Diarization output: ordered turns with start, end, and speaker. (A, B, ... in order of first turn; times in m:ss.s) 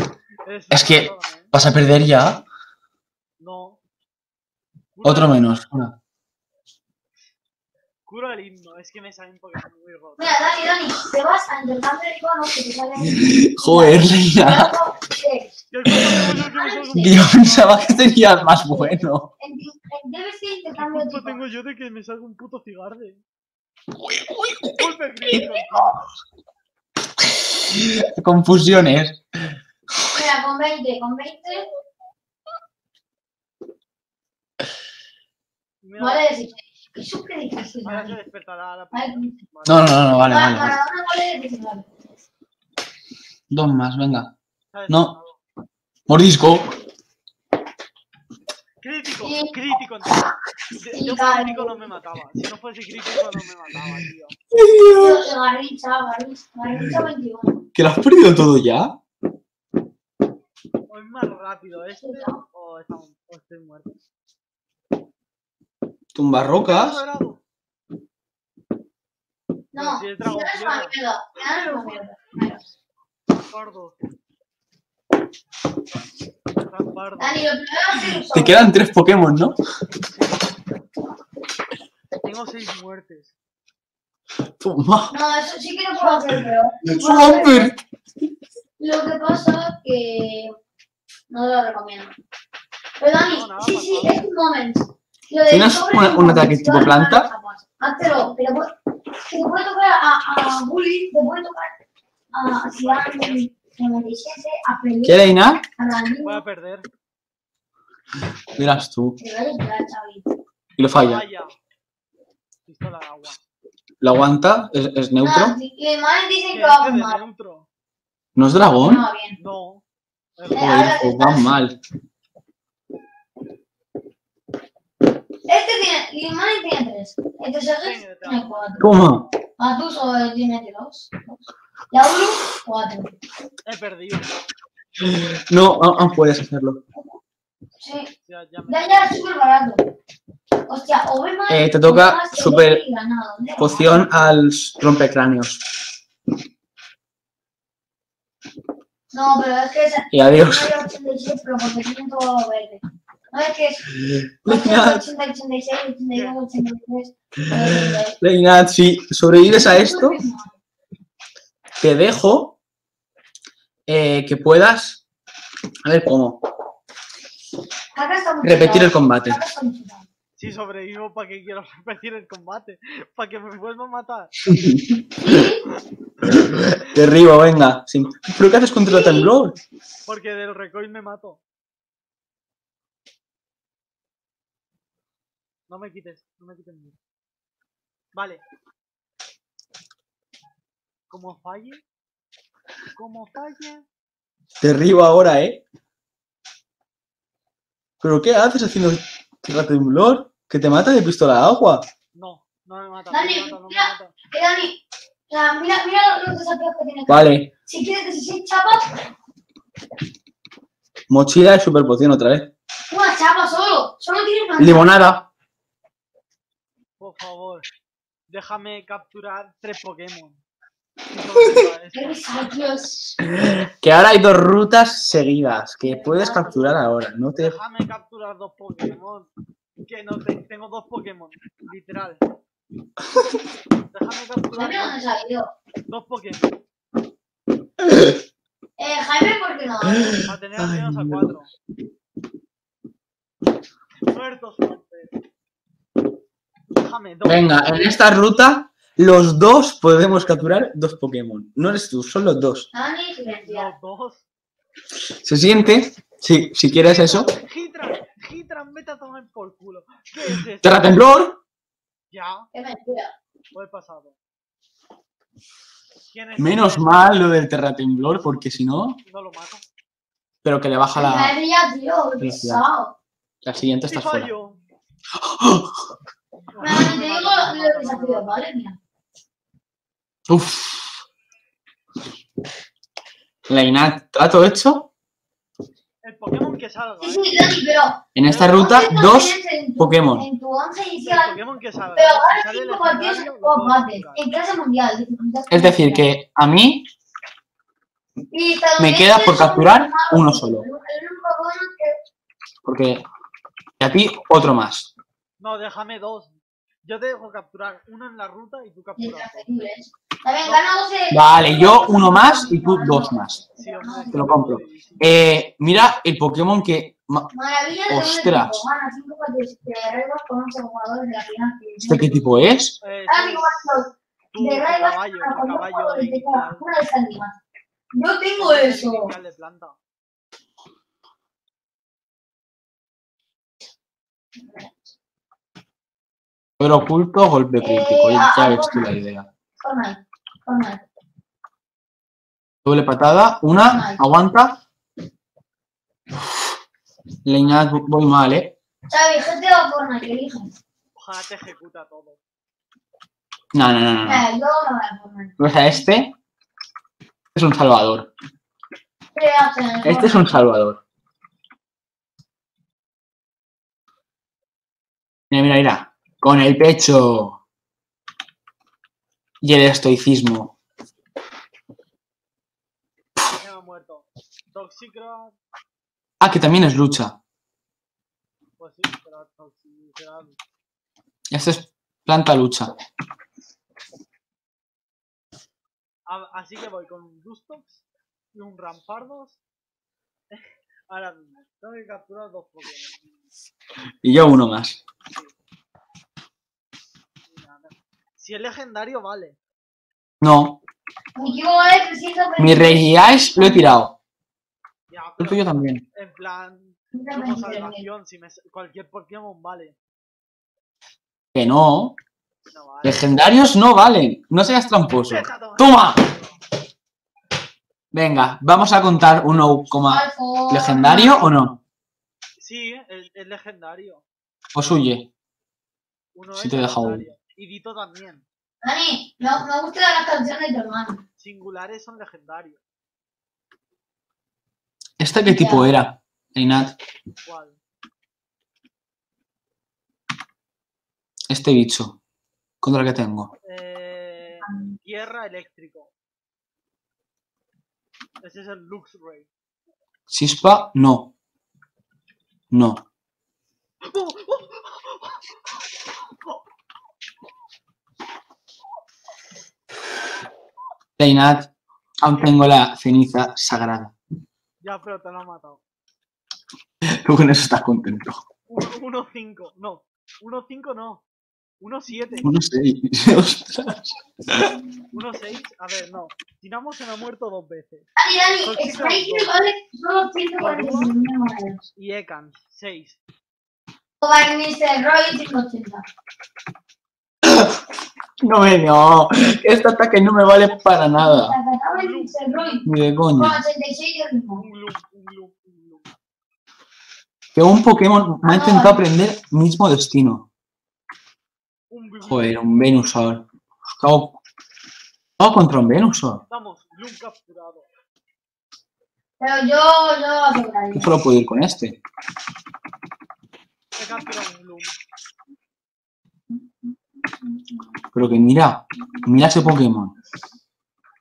0:00.5-0:01.5 A
0:00.7-0:02.4 B
0:03.4-0:03.8 A
0:05.0-0:05.5 A
0:05.0-0:05.9 B
0:08.1-0:10.8 A
0:10.2-0:15.5 C
0:13.0-0:14.7 B
0:15.7-0:18.7 A
0:15.9-0:16.4 B
0:16.4-0:17.2 C
0:16.9-0:19.3 B
0:19.4-0:21.4 C
0:20.8-0:23.2 A
0:24.1-0:25.9 B
0:24.7-0:26.1 A
0:27.2-0:29.6 B
0:30.1-0:31.7 C
0:35.8-0:36.3 A
0:36.0-0:38.2 C
0:37.8-0:40.4 A
0:38.9-0:39.4 C
0:39.7-0:40.8 B
0:40.2-0:41.9 C
0:43.5-0:44.3 B
0:44.7-0:45.4 A
0:46.1-0:46.7 B
0:48.8-0:54.4 A
0:49.2-0:49.5 C
0:50.9-0:51.8 C
0:54.5-0:55.3 B
0:54.9-0:57.6 C
0:56.8-0:57.1 B
0:57.8-0:59.0 B
1:00.9-1:04.0 A
1:02.0-1:02.4 C
1:06.2-1:07.0 B
1:06.4-1:07.4 A
1:09.7-1:12.6 C
1:09.8-1:12.0 A
1:13.4-1:14.0 A
1:16.6-1:17.6 A
1:17.2-1:18.7 C
1:18.0-1:19.6 B
1:20.0-1:20.5 A
1:22.2-1:23.3 A
1:24.6-1:25.1 B
1:25.1-1:27.7 C
1:26.0-1:26.4 A
1:26.8-1:27.7 B
1:28.8-1:30.6 C
1:31.3-1:32.1 C
1:33.0-1:38.7 C
1:33.2-1:34.3 A
1:35.5-1:37.3 B
1:38.1-1:38.3 A
1:39.3-1:41.7 C
1:42.3-1:46.4 C
1:42.8-1:43.4 A
1:45.0-1:45.6 B
1:46.2-1:46.9 A
1:48.6-1:49.2 B
1:49.2-1:50.3 C
1:50.8-1:51.2 B
1:50.9-1:51.6 A
1:52.7-1:53.4 A
1:54.0-1:55.6 B
1:55.2-1:57.2 C
1:56.5-1:57.7 A
1:58.4-1:59.0 B
1:58.8-1:59.4 C
1:59.4-1:59.8 A
2:00.4-2:00.9 A
2:00.5-2:01.5 C
2:00.5-2:01.8 B
2:05.5-2:08.9 C
2:07.8-2:09.4 A
2:08.8-2:09.2 B
2:09.6-2:11.4 C
2:11.9-2:13.1 C
2:13.7-2:14.4 A
2:15.0-2:16.8 B
2:17.8-2:18.1 C
2:18.3-2:19.2 A
2:18.7-2:19.8 C
2:20.7-2:23.7 C
2:21.5-2:22.8 B
2:23.6-2:25.6 B
2:23.6-2:24.4 A
2:29.1-2:33.9 C
2:30.1-2:30.8 B
2:33.9-2:35.0 B
2:34.5-2:38.2 C
2:36.1-2:36.4 A
2:37.5-2:40.2 B
2:39.4-2:40.5 C
2:41.8-2:42.5 B
2:43.9-2:45.0 B
2:45.8-2:46.4 B
2:48.0-2:50.1 C
2:48.4-2:49.4 B
2:50.4-2:54.5 A
2:54.5-2:55.5 B
2:55.2-2:55.6 C
2:56.2-2:59.6 B
2:58.9-2:59.3 C
3:00.1-3:01.4 A
3:05.7-3:07.0 A
3:08.1-3:08.4 A
3:11.1-3:11.8 A
3:13.0-3:13.9 A
3:14.6-3:15.6 B
3:18.0-3:21.8 B
3:22.2-3:24.1 A
3:23.1-3:24.8 C
3:25.3-3:28.9 C
3:27.1-3:27.5 B
3:31.1-3:32.5 B
3:32.9-3:35.0 C
3:34.6-3:35.2 B
3:37.0-3:37.7 A
3:38.3-3:40.4 A
3:41.1-3:42.2 A
3:41.9-3:43.2 C
3:43.3-3:47.6 B
3:45.9-3:46.7 C
3:47.4-3:49.3 A
3:49.8-3:52.2 A
3:53.9-3:55.0 A
3:54.5-3:55.5 C
3:55.9-3:56.5 A
3:58.8-4:00.2 C
4:00.0-4:01.3 B
4:00.1-4:01.5 A
4:04.1-4:05.1 A
4:06.7-4:08.0 A
4:07.2-4:12.7 B
4:10.0-4:10.5 A
4:12.7-4:13.7 C
4:13.4-4:14.3 A
4:15.2-4:17.3 B
4:16.8-4:21.0 A
4:20.6-4:21.4 B
4:22.1-4:22.5 A
4:22.5-4:23.1 C
4:23.5-4:24.2 A
4:26.1-4:27.3 A
4:26.4-4:29.0 B
4:29.1-4:29.6 A
4:30.4-4:31.4 B
4:31.0-4:32.9 C
4:32.2-4:32.6 B
4:33.4-4:34.3 B
4:33.9-4:34.6 A
4:35.2-4:35.8 B
4:36.5-4:38.4 A
4:36.6-4:38.8 C
4:40.3-4:41.0 B
4:43.5-4:44.9 B
4:46.0-4:47.6 A
4:47.0-4:51.4 C
4:48.2-4:50.2 B
4:48.2-4:48.8 A
4:51.0-4:54.3 A
4:52.0-4:56.1 C
4:55.5-4:56.8 B
4:58.3-5:02.0 C
4:58.8-5:00.6 B
5:02.6-5:03.0 B
5:03.8-5:04.9 B
5:05.4-5:06.3 A
5:06.8-5:09.5 A
5:09.0-5:14.3 C
5:11.1-5:13.4 B
5:13.6-5:15.2 A
5:14.1-5:17.3 B
5:17.3-5:22.3 C
5:17.9-5:18.6 B
5:21.9-5:22.8 B
5:22.8-5:26.7 A
5:23.1-5:27.4 C
5:27.9-5:29.1 C
5:28.4-5:29.8 A
5:34.5-5:34.7 C
5:36.6-5:39.3 B
5:37.6-5:38.9 C
5:39.6-5:40.8 C
5:42.6-5:44.6 B
5:43.5-5:44.0 C
5:47.2-5:48.5 B
5:47.4-5:47.9 A
5:48.9-5:50.5 C
5:51.0-5:52.2 A
5:53.5-5:54.3 B
5:54.0-5:55.8 C
5:55.4-5:56.1 B
5:57.4-5:58.1 B
5:59.2-6:00.4 C
5:59.8-6:00.8 B
6:05.3-6:07.4 B
6:09.4-6:10.5 B
6:13.2-6:15.4 A
6:16.2-6:17.2 B
6:18.6-6:20.4 A
6:21.3-6:22.7 B
6:26.1-6:29.4 A
6:30.3-6:33.2 A
6:34.0-6:34.8 B
6:35.1-6:35.3 A
6:37.3-6:39.4 A
6:40.2-6:40.6 B
6:41.2-6:43.6 C
6:41.2-6:41.8 A
6:42.4-6:43.9 B
6:44.9-6:49.8 A
6:45.2-6:45.8 B
6:46.9-6:47.8 C
6:51.3-6:52.0 B
6:52.5-6:53.2 A
6:52.8-6:56.0 B
6:55.0-6:56.4 A
6:57.9-7:01.6 B
6:59.9-7:01.3 C
7:02.4-7:04.0 A
7:04.6-7:05.1 B
7:06.2-7:08.2 A
7:06.4-7:07.0 B
7:08.6-7:11.0 C
7:11.2-7:12.6 A
7:15.0-7:16.8 B
7:15.3-7:15.7 C
7:17.3-7:17.6 A
7:21.3-7:22.0 B
7:22.6-7:23.3 B
7:23.4-7:25.9 A
7:24.4-7:24.8 C
7:28.2-7:29.3 A
7:30.1-7:31.1 B
7:32.5-7:32.8 B
7:33.8-7:35.4 A
7:41.0-7:41.5 B
7:42.0-7:43.9 B
7:44.6-7:45.6 A
7:46.8-7:48.2 B
7:48.5-7:51.0 A
7:51.6-7:52.3 A
7:52.2-7:54.5 B
7:54.9-7:57.9 A
7:58.0-8:01.6 C
7:58.4-7:59.4 A
8:00.4-8:01.0 A
8:01.8-8:03.0 A
8:04.0-8:05.9 C
8:07.2-8:07.6 B
8:08.2-8:11.4 B
8:10.1-8:10.6 A
8:10.9-8:12.6 C
8:11.7-8:12.7 A
8:12.6-8:13.4 B
8:13.2-8:14.4 C
8:14.4-8:15.9 A
8:17.4-8:20.2 B
8:18.2-8:18.8 C
8:21.7-8:22.8 A
8:22.0-8:24.2 B
8:25.2-8:26.2 B
8:26.3-8:27.7 A
8:29.2-8:30.9 C
8:30.7-8:31.8 B
8:33.8-8:34.8 A
8:37.2-8:37.5 C
8:37.9-8:39.9 B